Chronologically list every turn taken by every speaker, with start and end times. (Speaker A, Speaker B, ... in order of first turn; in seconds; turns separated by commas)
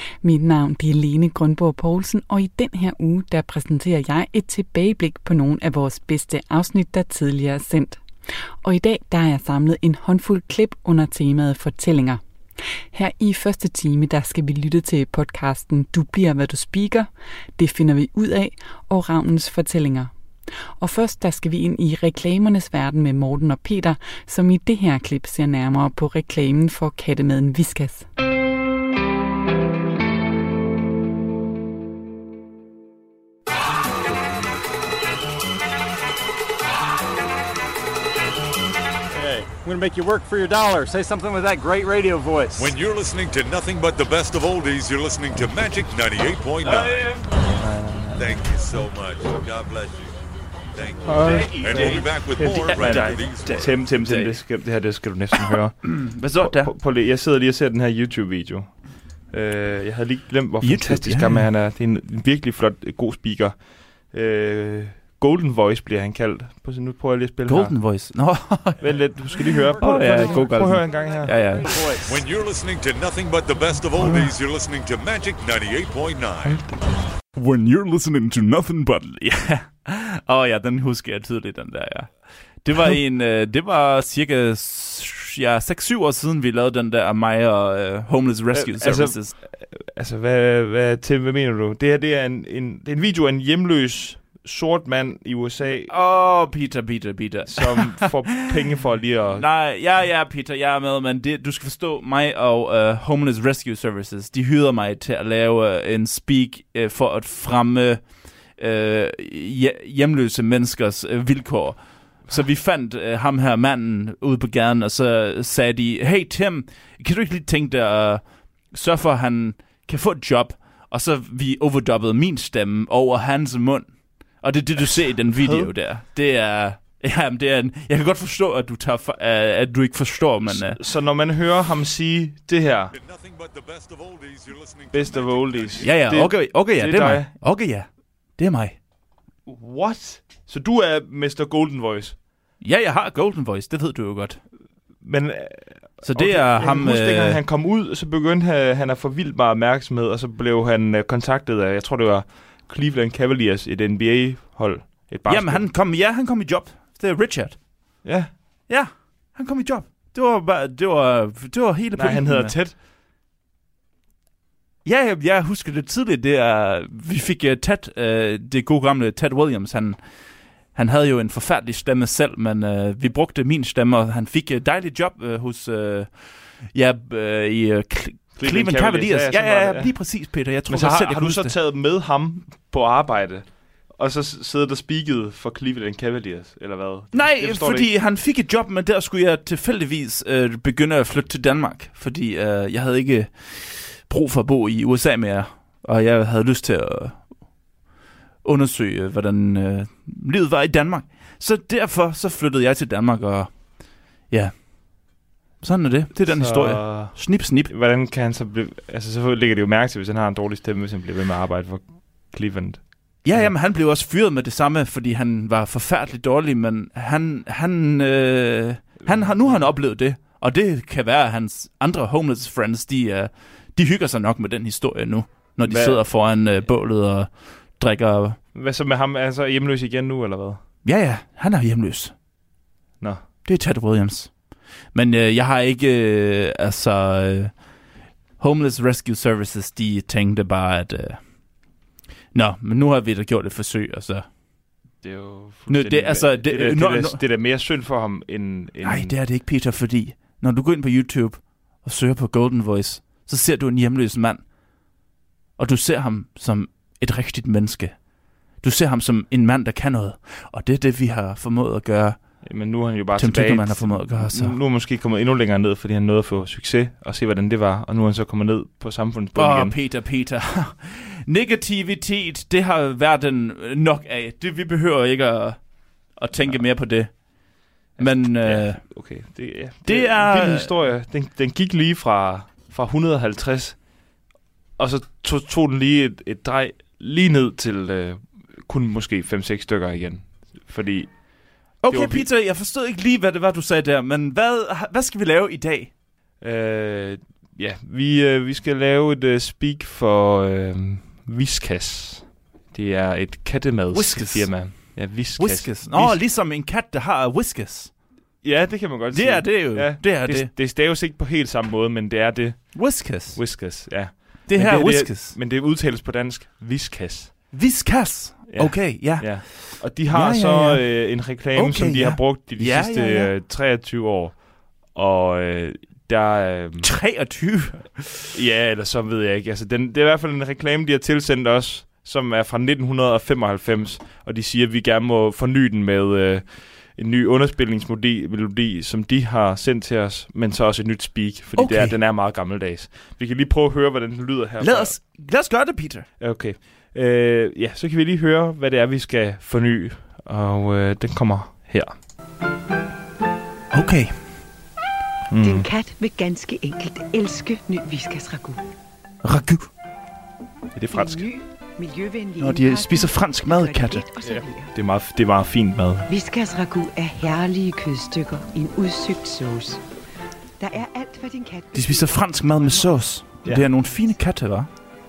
Speaker A: 0.2-8.0, Speaker A: 8.6-12.2, Speaker A: 12.9-20.1, Speaker A: 20.8-28.1, Speaker B: 39.1-42.8, Speaker C: 42.5-47.3, Speaker D: 46.6-48.9, Speaker C: 48.2-50.2, Speaker C: 50.7-53.9, Speaker D: 51.0-71.7, Speaker E: 51.1-54.4, Speaker E: 55.4-56.7, Speaker E: 60.6-61.5, Speaker E: 67.5-71.9, Speaker B: 69.8-72.2, Speaker C: 72.0-76.6, Speaker E: 74.0-74.3, Speaker D: 76.4-76.9, Speaker E: 77.3-89.3, Speaker D: 88.5-95.9, Speaker E: 95.7-98.5, Speaker D: 97.5-99.5, Speaker E: 99.3-130.8, Speaker D: 124.8-125.7, Speaker D: 130.4-132.9, Speaker C: 132.9-135.9, Speaker D: 134.9-137.3, Speaker E: 135.8-138.8, Speaker D: 139.4-142.2, Speaker E: 142.6-144.4, Speaker D: 145.0-155.7, Speaker E: 146.0-147.4, Speaker E: 155.3-157.6, Speaker D: 158.0-158.4, Speaker E: 158.7-162.6, Speaker D: 161.9-162.8, Speaker E: 164.8-170.0, Speaker E: 170.7-181.5, Speaker D: 178.4-187.9, Speaker E: 187.1-197.3, Speaker E: 198.4-205.1, Speaker E: 205.6-207.7, Speaker D: 206.2-213.6, Speaker E: 213.2-228.4, Speaker D: 219.0-219.7, Speaker D: 225.6-226.0, Speaker D: 228.5-230.6, Speaker E: 230.8-232.1, Speaker E: 233.4-234.4, Speaker E: 234.9-237.7, Speaker E: 238.4-241.6, Speaker E: 242.3-244.3, Speaker D: 245.0-249.1, Speaker E: 245.7-247.2, Speaker E: 248.8-254.4, Speaker E: 255.6-262.2, Speaker D: 262.4-269.8, Speaker E: 263.1-264.6, Speaker E: 269.3-278.8, Speaker D: 276.4-276.6, Speaker D: 277.9-283.9, Speaker E: 279.8-280.7, Speaker D: 284.8-292.3, Speaker E: 291.8-295.9, Speaker D: 296.4-306.2, Speaker E: 303.9-307.9, Speaker D: 308.4-317.4, Speaker E: 309.1-310.5, Speaker E: 312.7-315.4, Speaker E: 317.5-323.3, Speaker D: 318.5-326.9, Speaker E: 326.8-328.3, Speaker D: 328.3-345.0, Speaker E: 341.6-341.9, Speaker E: 344.6-346.1, Speaker D: 346.2-352.0, Speaker E: 353.7-354.4, Speaker D: 355.3-355.7, Speaker F: 355.4-358.6, Speaker E: 359.2-359.7, Speaker D: 360.8-361.2, Speaker F: 360.9-364.7, Speaker E: 362.4-364.0, Speaker D: 364.2-366.1, Speaker F: 366.1-369.8, Speaker F: 370.6-372.9, Speaker E: 371.7-374.7, Speaker D: 373.4-373.7